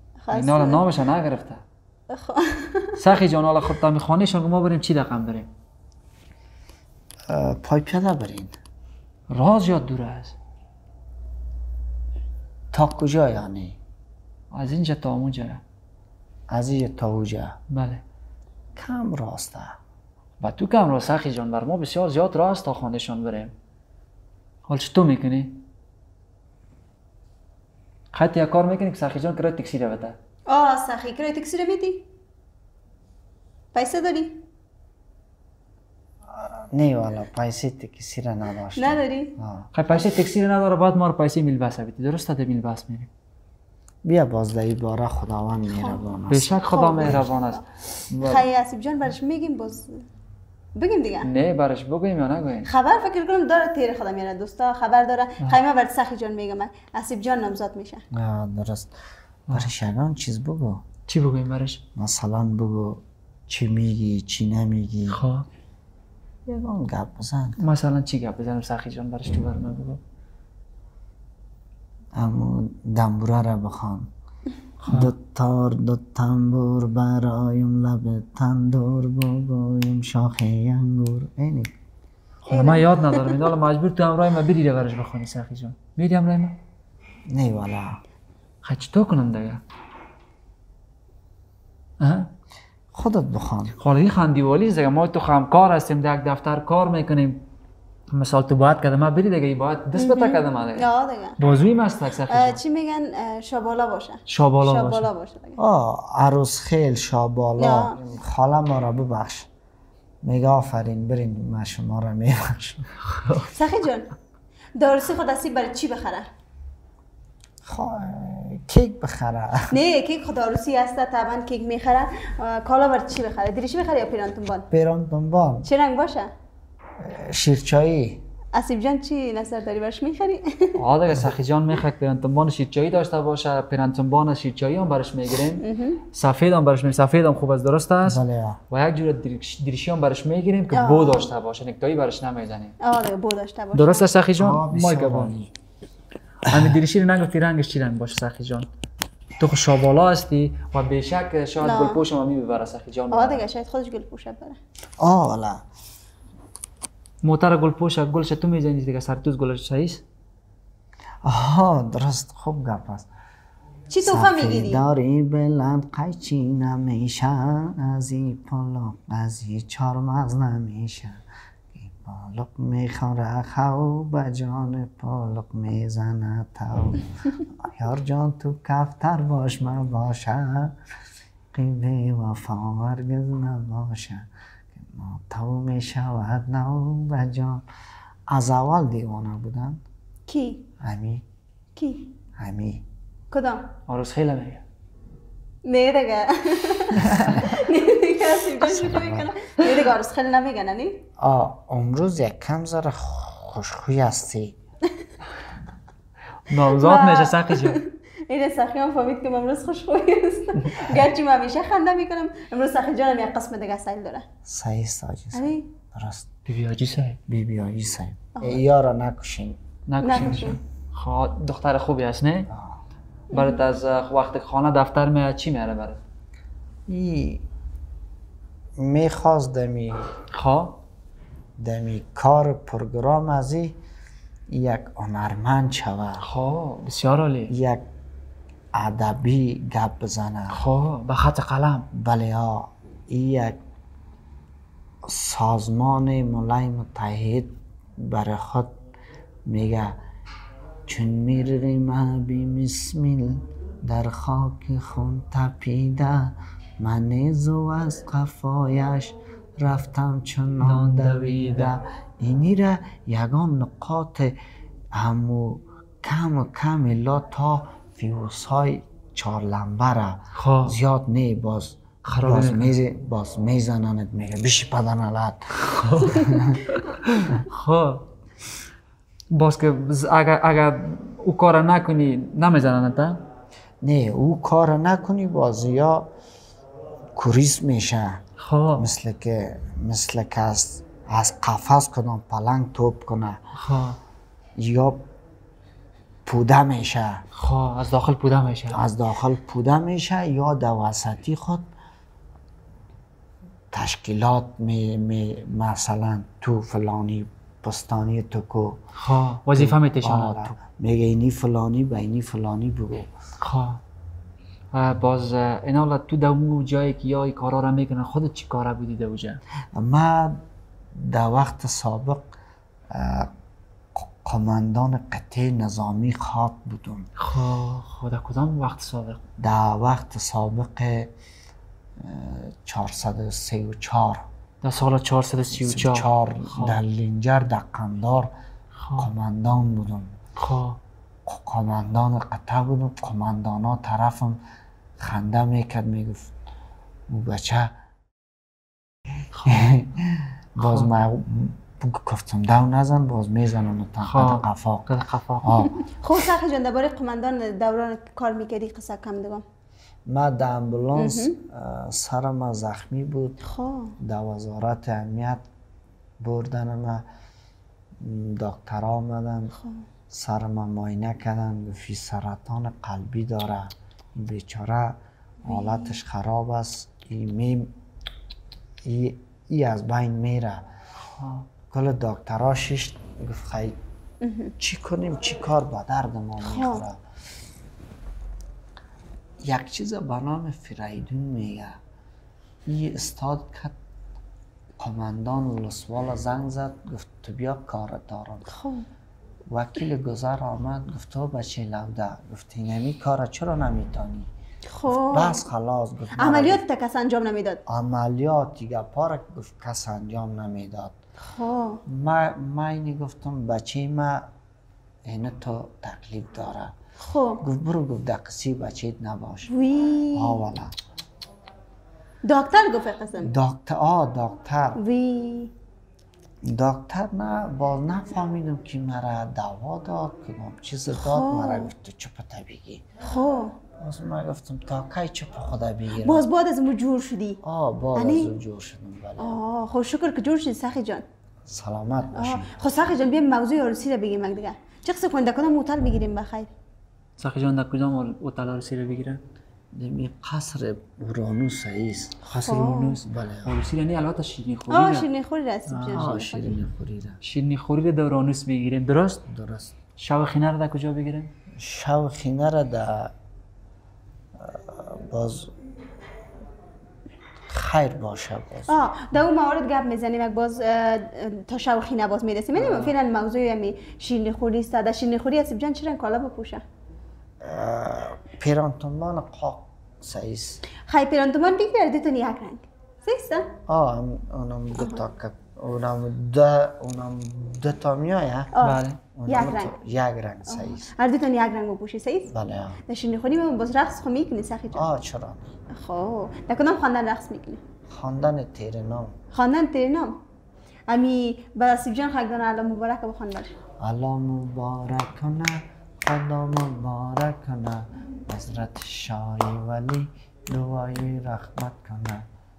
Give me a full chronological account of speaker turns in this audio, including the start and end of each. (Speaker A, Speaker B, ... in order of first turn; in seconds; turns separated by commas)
Speaker A: 0.2-0.9, Speaker B: 0.3-1.6, Speaker A: 2.1-3.0, Speaker B: 3.0-5.5, Speaker C: 7.3-8.5, Speaker B: 9.3-10.3, Speaker C: 12.7-13.8, Speaker B: 14.5-15.6, Speaker C: 16.5-17.6, Speaker B: 17.7-18.0, Speaker C: 18.8-19.8, Speaker B: 20.4-23.5, Speaker B: 24.7-25.6, Speaker B: 28.1-30.1, Speaker A: 30.5-32.1, Speaker A: 33.7-34.4, Speaker C: 36.3-39.7, Speaker A: 38.7-39.3, Speaker B: 39.7-43.1, Speaker C: 44.0-47.3, Speaker A: 45.7-46.0, Speaker B: 46.3-48.4, Speaker A: 46.7-47.6, Speaker A: 48.2-50.0, Speaker A: 50.7-51.3, Speaker B: 51.2-52.7, Speaker A: 52.6-58.0, Speaker C: 58.1-58.9, Speaker C: 59.5-60.8, Speaker B: 61.1-61.8, Speaker C: 61.9-65.2, Speaker B: 65.1-65.5, Speaker C: 66.5-67.6, Speaker B: 67.6-70.0, Speaker C: 72.1-74.1, Speaker B: 74.8-75.1, Speaker C: 74.9-81.7, Speaker B: 82.4-86.6, Speaker A: 82.5-83.4, Speaker C: 87.3-88.0, Speaker B: 88.6-89.6, Speaker B: 92.0-92.3, Speaker C: 92.9-93.8, Speaker B: 93.8-97.4, Speaker B: 98.1-102.6, Speaker A: 99.9-101.4, Speaker A: 102.3-105.6, Speaker B: 104.3-105.1, Speaker C: 105.6-109.5, Speaker A: 107.6-108.0, Speaker C: 110.2-112.9, Speaker A: 113.5-114.1, Speaker A: 114.8-116.3, Speaker C: 117.6-119.8, Speaker A: 119.7-124.7, Speaker C: 124.7-125.7, Speaker A: 125.6-126.3, Speaker C: 127.0-128.2, Speaker A: 128.5-130.8, Speaker B: 130.8-138.2, Speaker A: 135.6-136.0, Speaker C: 138.1-138.6, Speaker B: 138.7-142.7, Speaker A: 140.7-141.3, Speaker A: 142.8-144.1, Speaker B: 143.7-145.3, Speaker C: 144.3-145.5, Speaker C: 146.5-146.8, Speaker B: 146.5-148.7, Speaker B: 149.4-153.4, Speaker A: 151.6-152.0, Speaker A: 153.1-154.6, Speaker C: 155.0-155.6, Speaker B: 157.2-160.0, Speaker C: 161.2-163.1, Speaker A: 163.9-164.8, Speaker C: 164.0-171.2, Speaker C: 171.7-180.8, Speaker C: 181.5-187.6, Speaker C: 188.3-189.8, Speaker A: 190.3-190.7, Speaker C: 190.8-191.2, Speaker A: 191.8-192.1, Speaker C: 192.4-192.8, Speaker A: 193.3-193.7, Speaker B: 193.9-194.6, Speaker A: 195.6-201.0, Speaker C: 197.0-197.4, Speaker C: 198.6-199.3, Speaker C: 201.2-204.6, Speaker B: 206.4-207.8, Speaker A: 206.6-214.2, Speaker B: 210.6-210.9, Speaker C: 214.4-216.3, Speaker A: 215.3-215.7, Speaker B: 216.4-217.2, Speaker C: 217.3-219.6, Speaker A: 218.3-218.6, Speaker B: 219.9-222.5, Speaker A: 220.0-220.6, Speaker C: 222.5-222.8, Speaker A: 223.3-223.6, Speaker B: 223.3-226.0, Speaker C: 226.9-227.4, Speaker C: 228.8-230.1, Speaker B: 230.3-230.8, Speaker C: 231.6-233.8, Speaker C: 234.5-236.2, Speaker B: 236.2-237.5, Speaker C: 237.5-237.8, Speaker C: 238.7-240.6, Speaker B: 240.5-241.9, Speaker C: 241.9-243.6, Speaker C: 245.0-248.8, Speaker C: 249.5-250.0, Speaker C: 250.9-264.4, Speaker B: 260.6-261.7, Speaker C: 264.9-276.6, Speaker B: 270.3-270.8, Speaker B: 272.1-272.7, Speaker B: 275.6-278.0, Speaker B: 279.3-283.2, Speaker C: 283.8-286.1, Speaker C: 287.1-288.2, Speaker B: 288.4-288.9, Speaker C: 288.8-293.4, Speaker B: 293.6-294.0, Speaker C: 294.6-295.1, Speaker C: 296.2-297.2, Speaker B: 297.3-298.8, Speaker C: 298.7-301.6, Speaker C: 303.7-308.8, Speaker B: 309.0-310.5, Speaker C: 309.5-313.1, Speaker B: 313.4-313.8, Speaker B: 314.7-319.4, Speaker C: 319.7-320.4, Speaker C: 320.9-322.3, Speaker C: 322.9-323.3, Speaker C: 323.9-327.1, Speaker B: 327.2-329.2, Speaker C: 329.4-331.1, Speaker C: 332.0-334.2, Speaker B: 334.6-336.8, Speaker C: 335.5-338.3, Speaker B: 338.8-339.1, Speaker C: 339.0-340.1, Speaker B: 340.4-340.8, Speaker C: 341.3-344.4, Speaker C: 345.0-346.3, Speaker C: 347.1-347.7, Speaker B: 349.3-349.7, Speaker C: 349.4-355.8, Speaker B: 350.6-350.9, Speaker B: 354.0-355.7, Speaker A: 355.8-359.4, Speaker C: 360.1-363.4, Speaker A: 360.9-361.4, Speaker A: 363.4-363.9, Speaker C: 364.0-365.4, Speaker C: 366.2-367.0, Speaker C: 368.0-369.5, Speaker C: 370.1-377.7, Speaker A: 375.4-375.9, Speaker C: 378.8-380.6, Speaker B: 381.1-381.5, Speaker C: 381.7-383.8, Speaker A: 384.2-384.5, Speaker C: 384.6-387.0, Speaker A: 386.4-386.8, Speaker C: 389.4-391.8, Speaker C: 392.6-393.7, Speaker C: 394.8-398.5, Speaker A: 398.5-398.9, Speaker C: 399.5-404.3, Speaker A: 404.7-405.4, Speaker C: 404.9-406.6, Speaker A: 406.1-407.6, Speaker C: 407.7-410.9, Speaker A: 411.2-411.8, Speaker C: 411.9-414.3, Speaker C: 415.0-416.7, Speaker A: 417.0-417.4, Speaker C: 417.4-419.5, Speaker A: 419.5-420.4, Speaker C: 420.1-420.7, Speaker A: 422.2-423.3, Speaker C: 423.2-424.8, Speaker A: 424.8-425.5, Speaker C: 426.4-432.8, Speaker A: 430.9-431.7, Speaker A: 433.0-433.6, Speaker C: 433.8-436.2, Speaker A: 435.9-437.4, Speaker C: 437.4-439.4, Speaker A: 437.9-438.3, Speaker A: 439.2-441.0, Speaker C: 441.5-442.6, Speaker A: 442.1-446.5, Speaker B: 447.2-449.2, Speaker C: 449.7-452.2, Speaker A: 452.3-453.0, Speaker B: 452.3-455.1, Speaker C: 453.0-453.6, Speaker A: 454.7-456.6, Speaker B: 455.7-456.1, Speaker C: 455.9-457.2, Speaker B: 457.2-459.2, Speaker C: 459.2-459.8, Speaker B: 460.0-461.3, Speaker C: 461.5-463.1, Speaker C: 464.4-465.5, Speaker C: 467.5-468.9, Speaker A: 468.7-476.6, Speaker B: 472.5-472.9, Speaker C: 477.4-480.6, Speaker A: 480.8-483.5, Speaker C: 483.7-488.5, Speaker A: 484.8-485.0, Speaker A: 488.5-489.8, Speaker B: 488.6-489.0, Speaker C: 489.1-490.9, Speaker A: 490.5-492.3, Speaker C: 492.3-492.8, Speaker A: 492.9-494.8, Speaker C: 494.7-495.6, Speaker A: 495.7-497.6, Speaker C: 497.9-499.1, Speaker A: 499.3-500.2, Speaker A: 500.9-503.5, Speaker C: 503.8-512.2